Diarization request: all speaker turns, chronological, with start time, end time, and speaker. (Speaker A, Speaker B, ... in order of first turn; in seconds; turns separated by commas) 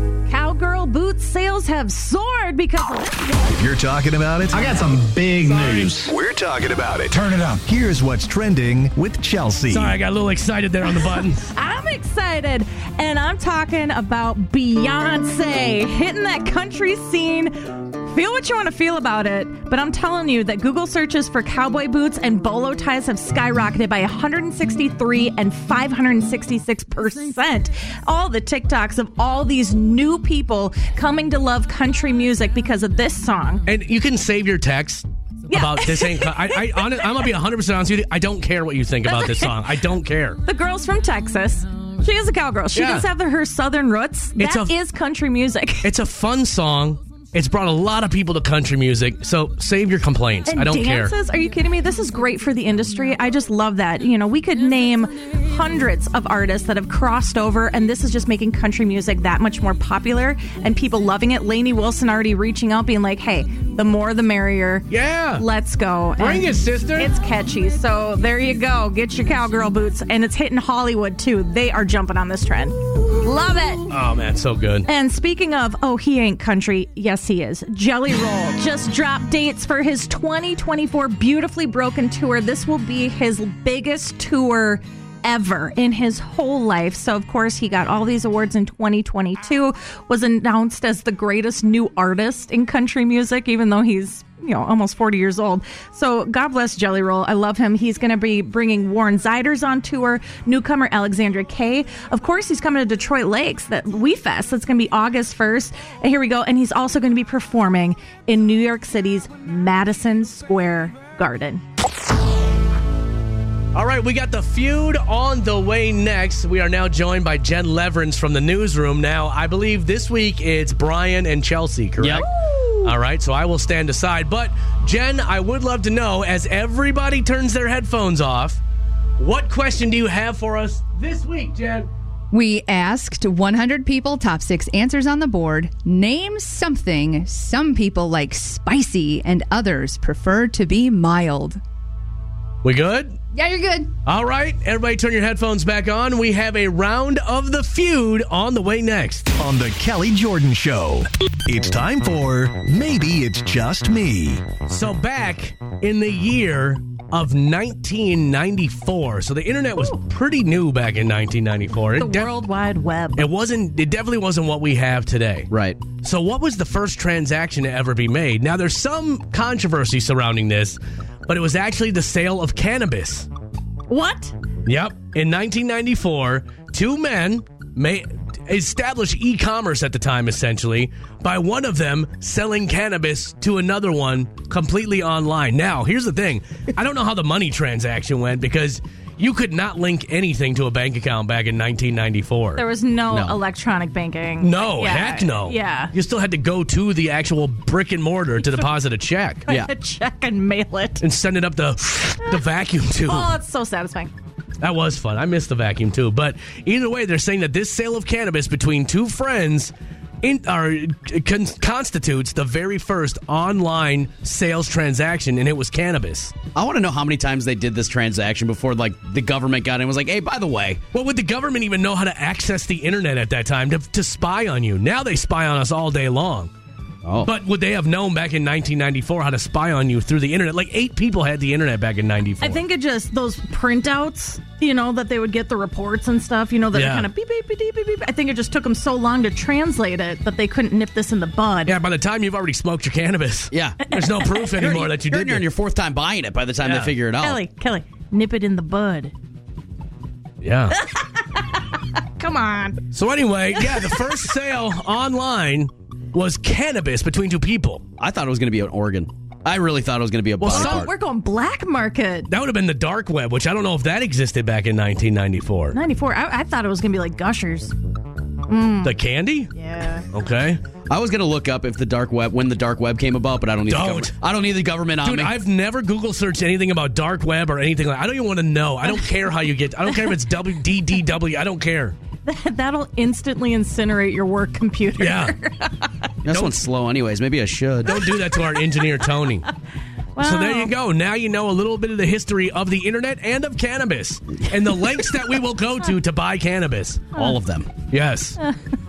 Speaker A: 0.3-3.4, Speaker B: 3.5-4.8, Speaker C: 4.5-6.1, Speaker D: 5.5-5.9, Speaker B: 5.8-10.0, Speaker C: 7.1-7.6, Speaker D: 9.7-11.5, Speaker A: 11.5-33.6, Speaker D: 33.7-40.4, Speaker A: 35.5-37.3, Speaker A: 39.0-39.6, Speaker A: 40.5-45.9, Speaker D: 42.7-43.1, Speaker D: 44.4-44.7, Speaker D: 45.8-51.1, Speaker A: 50.5-73.9, Speaker D: 64.9-65.4, Speaker D: 66.2-67.1, Speaker D: 73.9-74.9, Speaker A: 74.9-111.6, Speaker D: 113.7-122.3, Speaker E: 122.0-122.3, Speaker A: 122.2-122.9, Speaker D: 122.8-128.6, Speaker D: 129.2-131.9, Speaker F: 132.3-141.6, Speaker D: 142.6-143.2, Speaker F: 143.3-143.9, Speaker D: 144.1-149.3, Speaker B: 149.3-154.5, Speaker D: 154.7-162.3, Speaker A: 161.9-163.3, Speaker D: 163.2-173.3, Speaker E: 165.5-165.8, Speaker A: 173.9-174.3, Speaker D: 174.7-192.6, Speaker A: 192.6-195.9, Speaker E: 193.1-193.4, Speaker D: 194.4-199.4, Speaker A: 198.4-198.7, Speaker A: 199.5-201.0, Speaker D: 201.0-203.3, Speaker A: 203.1-204.1, Speaker D: 204.6-216.3, Speaker E: 216.6-220.8, Speaker D: 220.9-226.5, Speaker E: 227.0-227.3, Speaker D: 227.2-232.6, Speaker A: 232.4-241.8, Speaker D: 236.7-237.1, Speaker D: 241.7-245.5, Speaker E: 243.5-243.9, Speaker A: 243.9-244.6, Speaker E: 244.4-247.4, Speaker D: 246.6-246.9, Speaker A: 247.2-249.1, Speaker D: 250.4-250.8, Speaker A: 250.8-252.8, Speaker D: 252.9-257.8, Speaker A: 253.6-254.2, Speaker E: 258.0-260.9, Speaker D: 260.4-260.9, Speaker A: 260.4-262.3, Speaker D: 262.3-265.8, Speaker A: 265.7-267.7, Speaker A: 268.5-269.0, Speaker D: 268.8-269.5, Speaker A: 269.6-270.1, Speaker D: 270.1-270.6, Speaker E: 270.9-275.4, Speaker D: 273.7-274.1, Speaker D: 275.0-281.9, Speaker A: 279.9-280.2, Speaker A: 282.2-285.9, Speaker D: 285.0-285.4, Speaker E: 286.2-288.0, Speaker D: 286.3-286.6, Speaker D: 287.9-289.5, Speaker A: 288.0-288.9, Speaker A: 290.2-290.7, Speaker D: 290.2-297.2, Speaker E: 297.2-297.7, Speaker D: 297.9-298.4